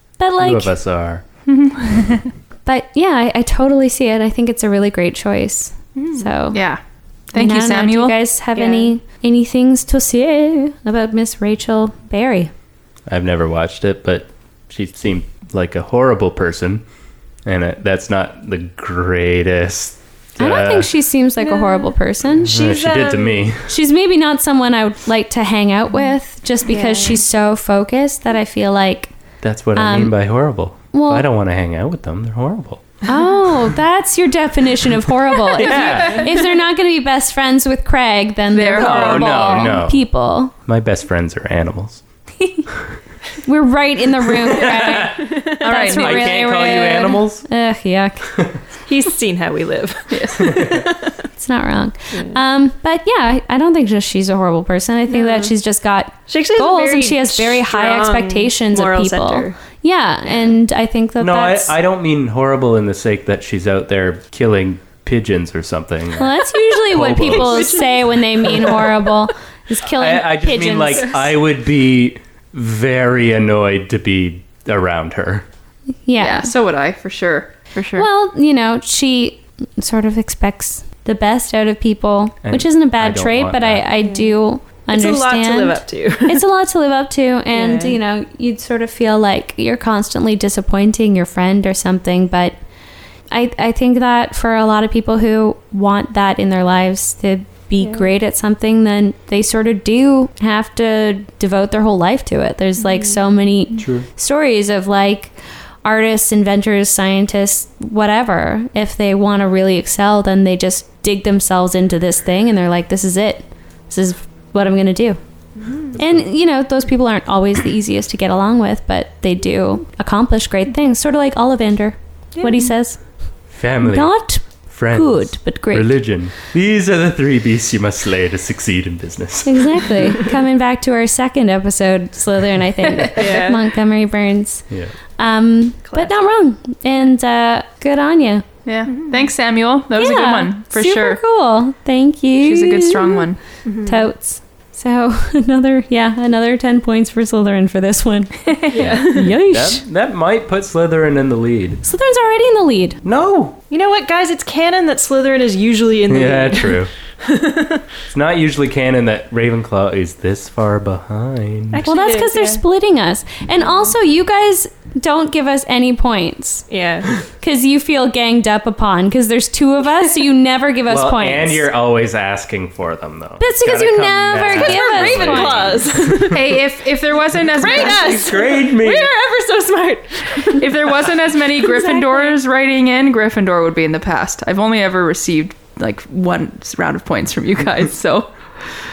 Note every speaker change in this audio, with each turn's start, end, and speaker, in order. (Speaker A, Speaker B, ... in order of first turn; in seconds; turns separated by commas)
Speaker A: 0.2-0.8, Speaker B: 0.4-1.2, Speaker C: 1.5-2.3, Speaker A: 2.7-6.6, Speaker C: 6.0-6.8, Speaker C: 7.3-8.2, Speaker A: 7.3-12.5, Speaker D: 8.6-8.9, Speaker B: 13.1-16.8, Speaker B: 17.4-20.9, Speaker A: 20.4-22.5, Speaker D: 21.4-23.5, Speaker B: 22.4-23.7, Speaker A: 23.7-29.1, Speaker D: 26.7-27.2, Speaker B: 29.4-32.9, Speaker A: 29.8-30.2, Speaker A: 30.9-31.3, Speaker A: 33.1-40.5, Speaker B: 35.6-36.3, Speaker C: 35.9-36.2, Speaker C: 38.5-39.8, Speaker B: 38.7-40.1, Speaker B: 40.6-42.0, Speaker A: 42.4-42.7, Speaker A: 43.4-48.3, Speaker B: 44.5-47.5, Speaker D: 45.2-46.0, Speaker C: 45.6-46.4, Speaker D: 48.9-51.2, Speaker C: 50.1-50.6, Speaker B: 50.4-50.8, Speaker A: 51.4-61.7, Speaker D: 52.1-52.4, Speaker D: 55.1-55.5, Speaker D: 56.3-59.6, Speaker B: 61.2-66.4, Speaker A: 66.2-71.3, Speaker B: 66.9-67.8, Speaker D: 67.3-69.1, Speaker B: 69.8-75.5, Speaker A: 76.1-76.5, Speaker C: 76.2-78.1, Speaker A: 78.0-92.6, Speaker B: 82.4-83.9, Speaker D: 84.0-86.4, Speaker D: 87.5-88.0, Speaker A: 93.3-115.2, Speaker D: 97.8-98.1, Speaker D: 102.8-103.2, Speaker B: 103.8-104.1, Speaker D: 115.6-116.0, Speaker B: 116.0-116.3, Speaker A: 116.0-123.1, Speaker D: 122.3-122.7, Speaker B: 123.5-130.2, Speaker A: 123.8-126.0, Speaker A: 129.4-134.7, Speaker D: 133.2-133.6, Speaker A: 135.2-138.4, Speaker D: 135.8-136.1, Speaker C: 138.7-141.2, Speaker D: 138.9-139.3, Speaker A: 139.9-143.2, Speaker C: 142.4-143.4, Speaker D: 143.7-144.1, Speaker A: 143.9-149.8, Speaker D: 148.7-149.3, Speaker B: 148.8-151.8, Speaker A: 151.8-153.0, Speaker B: 153.0-153.6, Speaker D: 153.7-157.8, Speaker B: 156.1-156.9, Speaker B: 158.1-161.8, Speaker D: 161.7-162.6, Speaker A: 161.9-166.7, Speaker D: 166.7-167.1, Speaker A: 167.4-171.7, Speaker B: 170.9-176.4, Speaker A: 173.4-175.7, Speaker D: 174.4-176.6, Speaker C: 176.3-178.5, Speaker D: 177.6-180.6, Speaker B: 177.6-179.1, Speaker C: 180.6-188.3, Speaker A: 181.7-182.4